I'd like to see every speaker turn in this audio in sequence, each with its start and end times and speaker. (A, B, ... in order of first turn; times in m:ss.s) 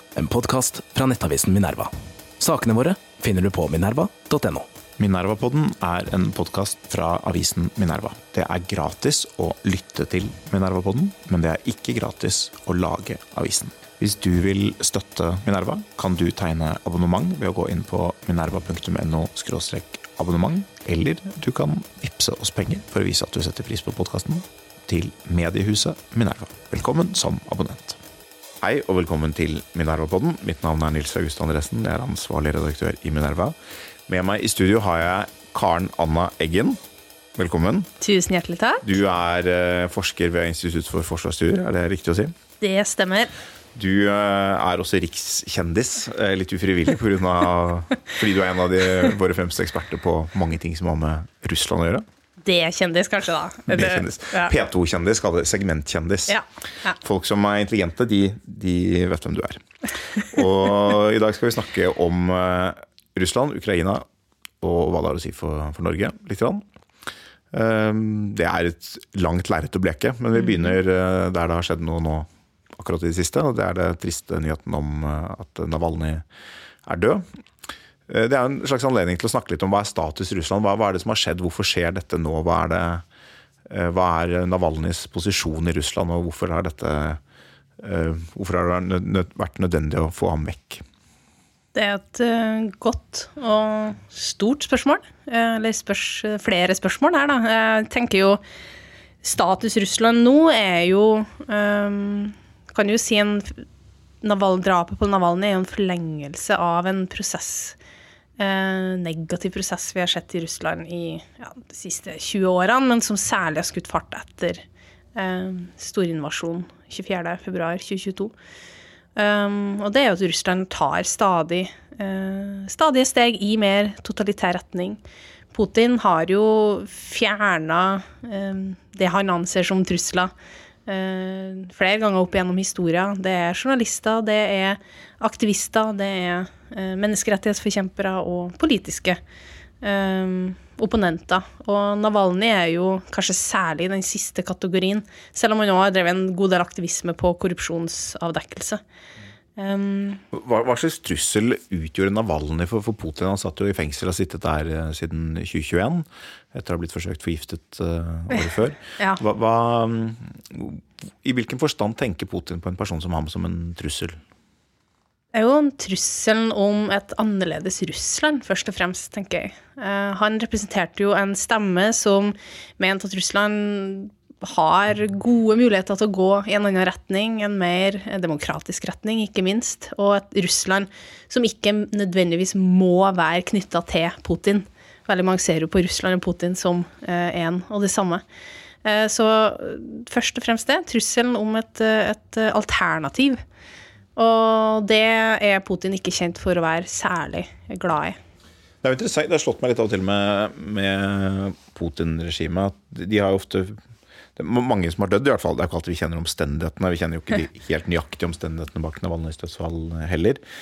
0:00.2-0:04.7 A
0:05.0-0:28.0 B
0:28.6-0:33.5 B
0:34.1-0:36.8 B
0:37.4-0:37.9 B
0:38.0-0:38.8 C
0:38.8-0:42.4 B
0:42.6-0:43.3 C
0:43.7-0:52.0 B
0:52.4-0:54.5 C
0:53.7-0:56.4 B
0:56.3-0:57.0 C
0:57.0-0:59.6 B
1:00.3-1:04.0 B
1:04.6-1:06.6 B
1:07.5-1:16.2 B
1:16.8-1:17.2 B
1:18.1-1:23.0 B
1:23.7-1:27.2 B
1:27.8-1:30.8 B
1:31.7-1:38.4 C
1:39.2-1:43.6 C
1:44.2-1:47.8 C
1:48.4-1:54.6 C
1:55.1-1:58.3 C
1:59.2-2:05.0 C
2:05.5-2:10.3 C
2:10.9-2:19.2 C
2:19.8-2:28.8 C
2:29.6-2:30.2 C
2:30.3-2:44.2 B
2:45.3-3:08.2 C
3:08.8-3:13.4 C
3:14.2-3:18.2 C
3:18.8-3:23.8 B
3:24.4-3:30.4 B